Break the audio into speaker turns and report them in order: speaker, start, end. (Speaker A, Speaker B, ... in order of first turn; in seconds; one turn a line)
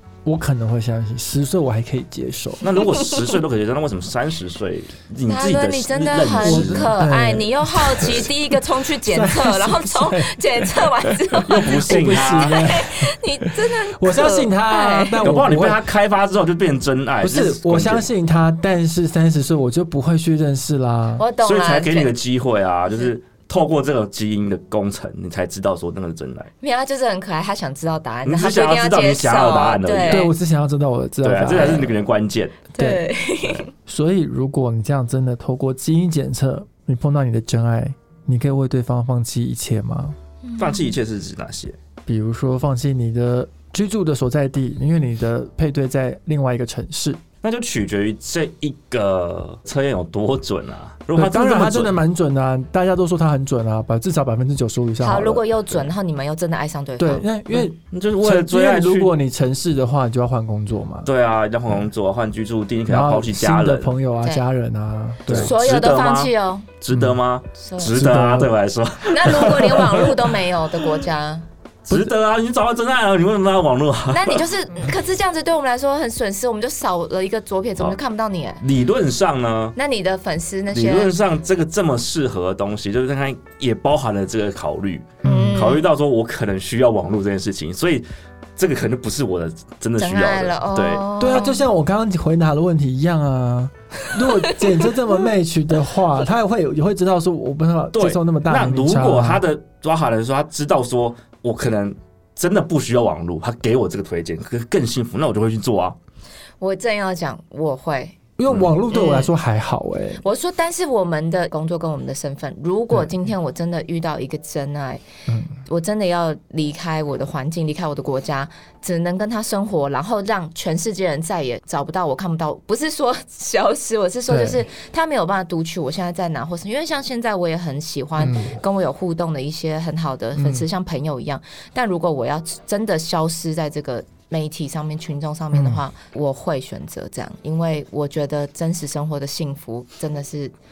Speaker A: 0.3-2.6
Speaker B: 2.6-6.9
Speaker C: 2.8-3.3
Speaker C: 5.3-15.2
Speaker A: 6.4-15.8
Speaker B: 11.5-12.8
Speaker B: 15.2-18.1
Speaker A: 17.2-21.2
Speaker C: 21.2-22.1
Speaker B: 21.4-26.5
Speaker C: 26.6-30.3
Speaker B: 28.3-30.3
Speaker A: 30.1-32.0
Speaker B: 31.2-32.7
Speaker C: 31.5-31.9
Speaker C: 32.8-33.7
Speaker A: 32.8-33.0
Speaker A: 33.9-40.2
Speaker C: 40.5-41.0
Speaker B: 40.6-41.8
Speaker A: 42.1-47.2
Speaker B: 47.4-52.0
Speaker A: 51.1-55.5
Speaker C: 55.0-57.3
Speaker A: 57.0-61.1
Speaker B: 57.6-59.1
Speaker B: 61.0-63.9
Speaker A: 62.9-65.5
Speaker B: 65.3-70.3
Speaker C: 65.3-66.7
Speaker A: 66.9-67.2
Speaker C: 67.5-68.1
Speaker A: 67.9-68.5
Speaker C: 69.0-71.5
Speaker A: 71.9-72.1
Speaker B: 71.9-74.5
Speaker C: 74.1-78.6
Speaker B: 78.6-79.8
Speaker C: 79.8-81.1
Speaker B: 80.7-88.0
Speaker A: 85.2-85.6
Speaker C: 85.2-85.9
Speaker B: 88.6-91.1
Speaker C: 90.0-91.7
Speaker A: 91.2-99.4
Speaker C: 94.2-94.8
Speaker B: 98.0-106.0
Speaker C: 106.6-108.2
Speaker A: 108.4-110.2
Speaker C: 108.9-109.3
Speaker C: 110.2-115.0
Speaker A: 115.3-115.6
Speaker C: 115.7-140.5
Speaker A: 124.3-124.6
Speaker A: 128.2-128.6
Speaker A: 130.4-130.7
Speaker A: 135.5-135.8